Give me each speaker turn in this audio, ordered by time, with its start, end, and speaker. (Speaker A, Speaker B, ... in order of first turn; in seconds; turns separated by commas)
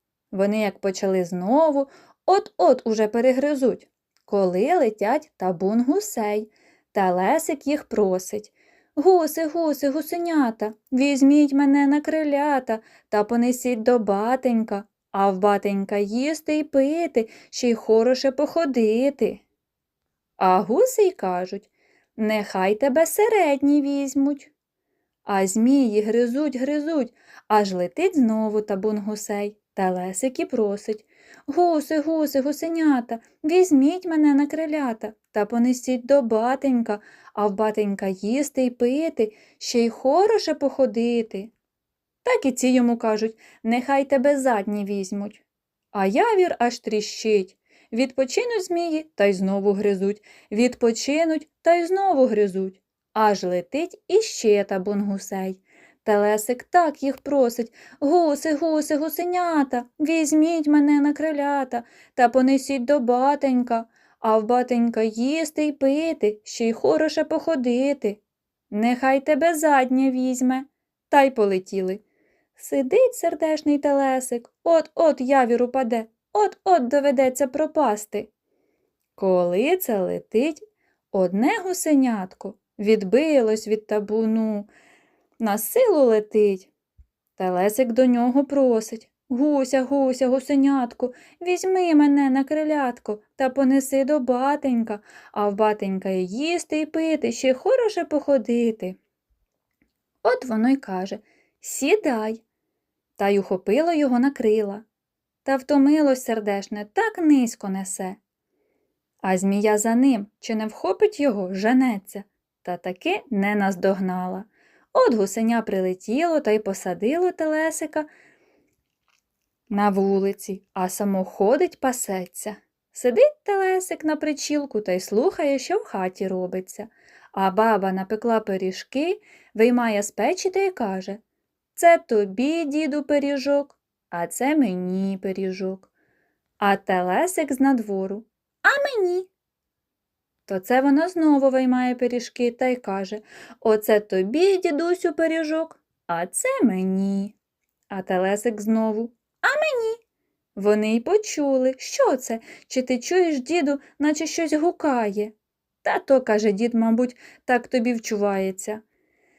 Speaker A: 0.3-19.4, Speaker A: 20.4-24.5, Speaker A: 25.3-41.5, Speaker A: 42.2-68.2, Speaker A: 68.7-72.0, Speaker A: 72.6-78.3, Speaker A: 79.2-84.7, Speaker A: 85.4-86.7, Speaker A: 87.4-99.0, Speaker A: 100.2-102.4, Speaker A: 103.2-104.8, Speaker A: 105.5-108.2, Speaker A: 109.2-118.1, Speaker A: 119.7-131.2, Speaker A: 131.8-135.9, Speaker A: 136.6-139.3, Speaker A: 140.5-147.3, Speaker A: 147.9-150.0, Speaker A: 150.6-158.8